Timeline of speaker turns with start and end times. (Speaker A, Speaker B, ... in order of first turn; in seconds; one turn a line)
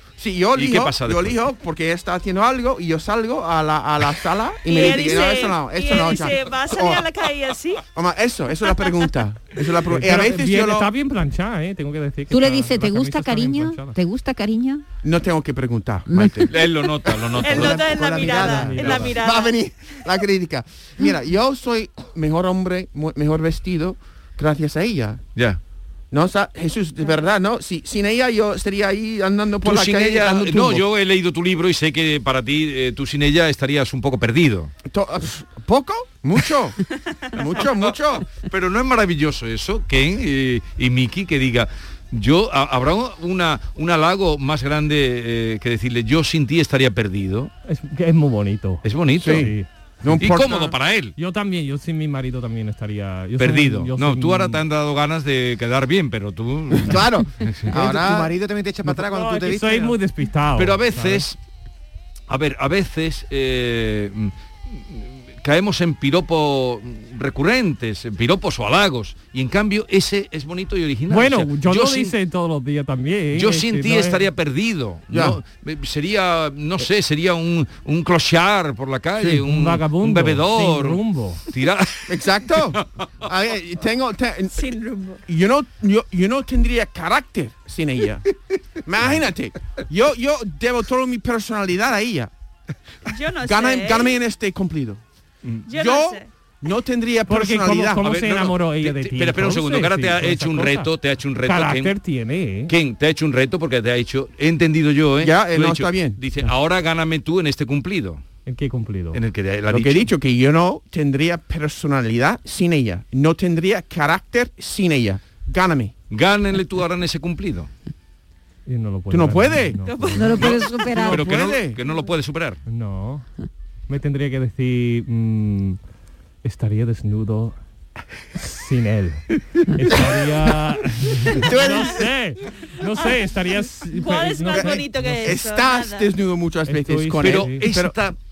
Speaker A: 0.2-7.0
Speaker B: 0.5-1.4
Speaker C: 4.6-7.8
Speaker A: 7.9-10.9
Speaker D: 9.9-14.0
Speaker E: 12.3-14.8
Speaker A: 15.0-17.3
Speaker E: 16.1-16.5
Speaker B: 16.5-18.1
Speaker F: 17.3-19.1
Speaker C: 17.4-19.6
Speaker D: 18.4-19.1
Speaker A: 19.1-25.2
Speaker A: 26.1-30.8
Speaker B: 29.6-34.7
Speaker A: 34.9-36.8
Speaker C: 37.0-37.5
Speaker A: 37.3-38.2
Speaker B: 37.5-47.5
Speaker D: 47.7-50.2
Speaker B: 48.8-49.5
Speaker A: 49.2-50.7
Speaker B: 50.2-51.1
Speaker D: 51.1-54.6
Speaker B: 53.4-57.7
Speaker A: 56.8-58.3
Speaker F: 57.7-60.0
Speaker D: 58.8-61.2
Speaker B: 60.6-61.4
Speaker B: 62.3-72.1
Speaker D: 71.1-74.3
Speaker B: 73.3-82.2
Speaker A: 75.1-75.4
Speaker D: 79.2-81.4
Speaker A: 82.1-84.7
Speaker C: 84.5-85.2
Speaker A: 85.3-88.2
Speaker A: 88.8-92.3
Speaker C: 93.0-94.2
Speaker A: 93.4-95.0
Speaker C: 95.7-96.3
Speaker A: 95.7-98.1
Speaker D: 97.3-100.9
Speaker B: 98.0-101.9
Speaker D: 101.4-102.7
Speaker B: 102.7-108.2
Speaker A: 105.2-106.2
Speaker D: 108.5-109.2
Speaker B: 109.1-110.1
Speaker A: 109.7-115.9
Speaker B: 116.1-117.7
Speaker D: 118.7-120.6
Speaker A: 119.1-119.8
Speaker C: 119.8-120.7
Speaker E: 120.1-121.3
Speaker B: 120.3-122.6
Speaker A: 120.4-121.8
Speaker D: 122.7-123.2
Speaker D: 123.9-125.8
Speaker D: 126.4-127.6
Speaker D: 128.3-135.2
Speaker A: 131.3-132.0
Speaker C: 133.9-136.1
Speaker A: 134.5-137.9
Speaker D: 136.7-137.7
Speaker B: 137.2-138.2